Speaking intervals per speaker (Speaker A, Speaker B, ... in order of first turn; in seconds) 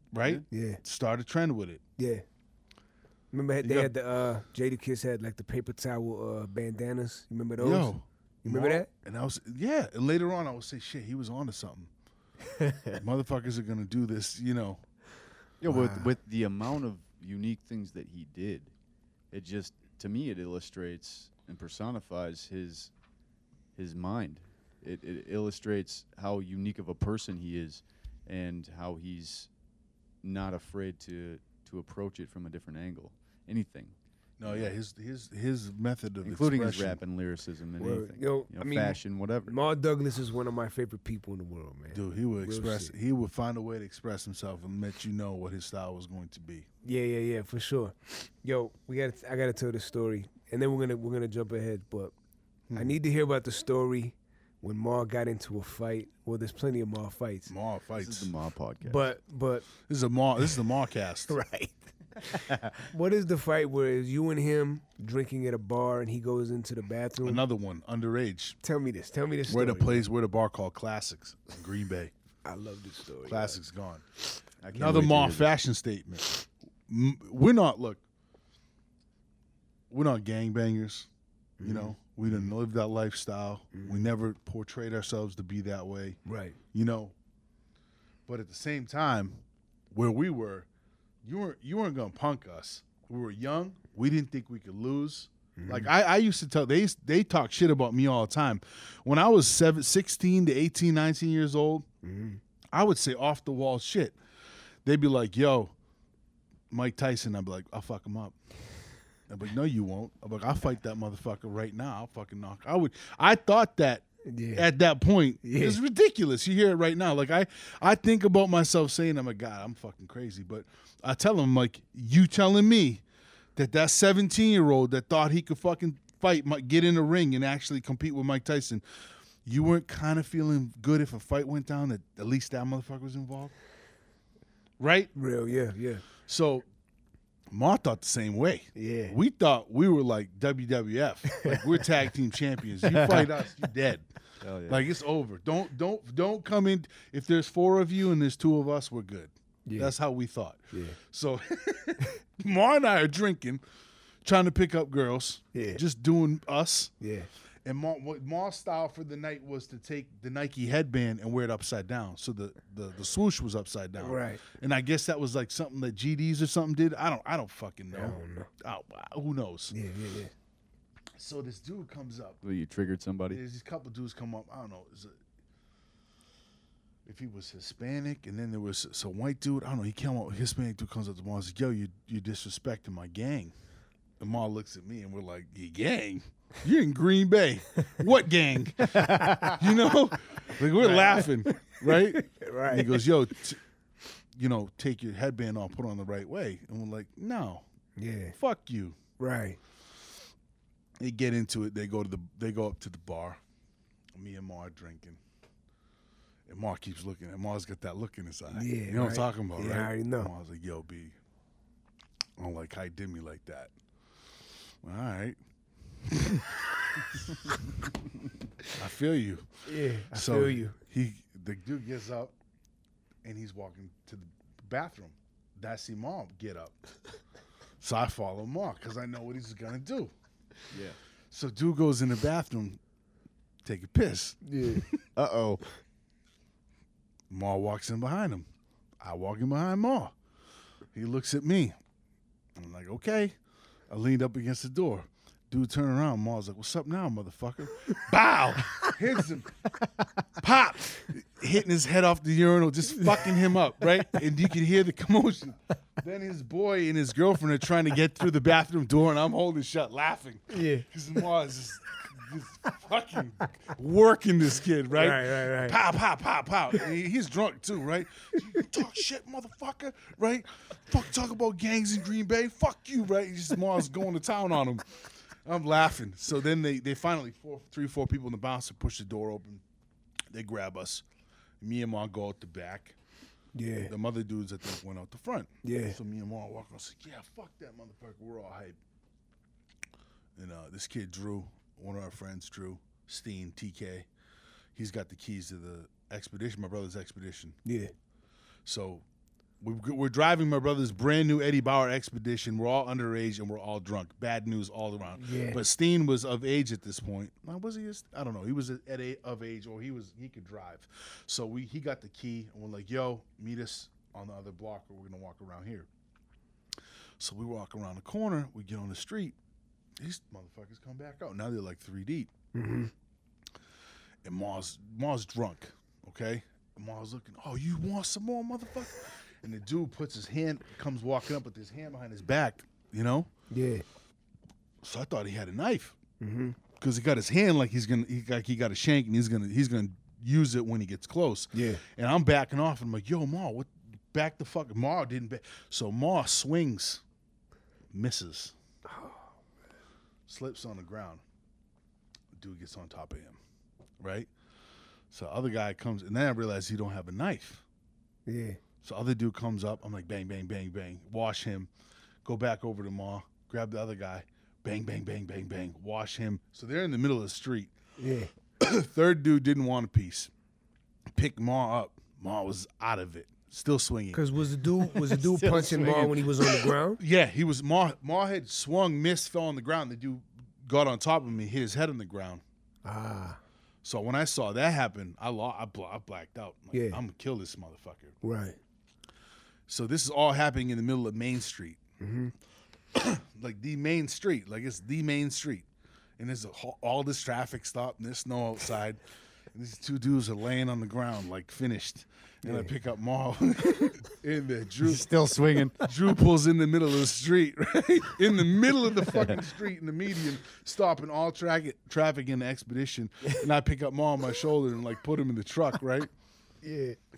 Speaker A: 0.1-1.8, 3.6-3.9, 7.6-11.9, 13.0-14.8, 34.4-37.0, 41.9-46.7, 52.7-53.0, 57.5-58.3, 59.8-61.4, 67.2-68.6, 69.5-72.1, 73.2-74.0, 74.7-78.0, 79.9-81.1, 81.6-86.2, 86.7-87.1, 88.3-90.7, 91.2-101.9, 102.7-104.2, 104.8-105.7, 106.7-108.3, 109.3-123.0, 123.5-128.8, 129.4-133.5, 134.8-135.1, 136.2-136.7, 137.5-144.1, 144.7-153.6, 154.2-156.9, 157.6-169.7, 171.2-172.4, 173.3-175.2, 177.1-183.5, 184.2-193.6, 194.3-197.6, 198.3-199.0, 201.0-203.4, 204.1-205.2, 206.5-211.2, 212.4-213.7, 214.8-215.4, 216.1-217.6, 218.7-219.5, 220.1-222.3, 223.2-226.8, 227.8-230.1, 231.3-232.8, 233.6-234.9, 237.3-238.5, 239.0-240.1, 240.9-241.8, 242.6-243.3, 243.9-249.5, 250.4-279.6, 280.3-281.0, 281.6-282.9, 283.9-288.8, 290.4-294.1, 294.7-297.6, 298.6-299.0, 299.6-315.9, 317.2-319.4, 320.0-322.3, 324.2-333.3, 334.8-335.9, 336.7-347.0, 347.9-348.5, 350.3-351.2, 352.4-353.4, 354.0-354.3, 355.1-357.6, 358.8-361.7, 362.2-367.7, 368.6-370.3, 371.1-374.2, 377.0-382.4, 383.8-388.1, 389.7-391.8, 392.9-395.6, 396.2-399.0, 399.5-405.1, 405.8-416.1
Speaker B: 0.5-0.8, 2.0-2.2, 3.3-7.9, 8.4-8.9, 12.6-13.0, 15.7-16.1, 37.8-42.9, 46.8-52.1, 52.7-57.5, 58.8-59.7, 61.3-67.4, 68.6-70.1, 72.4-73.6, 81.6-82.5, 83.7-84.1, 86.2-86.6, 95.6-95.9, 102.0-102.4, 114.3-114.7, 115.4-115.8, 135.2-136.0, 138.8-139.2, 149.7-149.9, 150.7-151.0, 155.5-155.8, 157.0-157.3, 164.0-164.4, 167.9-168.5, 169.7-170.3, 190.8-193.0, 198.0-198.3, 199.2-199.6, 208.5-210.3, 219.7-220.8, 234.4-234.8, 260.5-260.9, 264.9-265.8, 283.5-283.9, 285.6-286.0, 297.6-297.9, 305.2-305.6, 322.5-322.9, 333.5-333.8, 336.2-336.6, 341.5-341.8, 348.9-349.3, 358.2-358.6, 368.0-368.3, 374.1-377.0, 382.8-383.4, 386.7-387.0, 388.2-388.6, 392.0-392.3, 402.4-402.7, 416.6-417.0
Speaker C: 15.6-18.7, 19.3-22.9, 23.7-29.5, 30.2-34.7, 36.2-39.5, 57.9-59.1, 62.4-62.7, 74.6-75.6, 144.4-144.9, 172.4-173.4, 189.0-189.5, 230.7-231.0, 235.2-235.6, 374.9-376.5, 404.8-405.8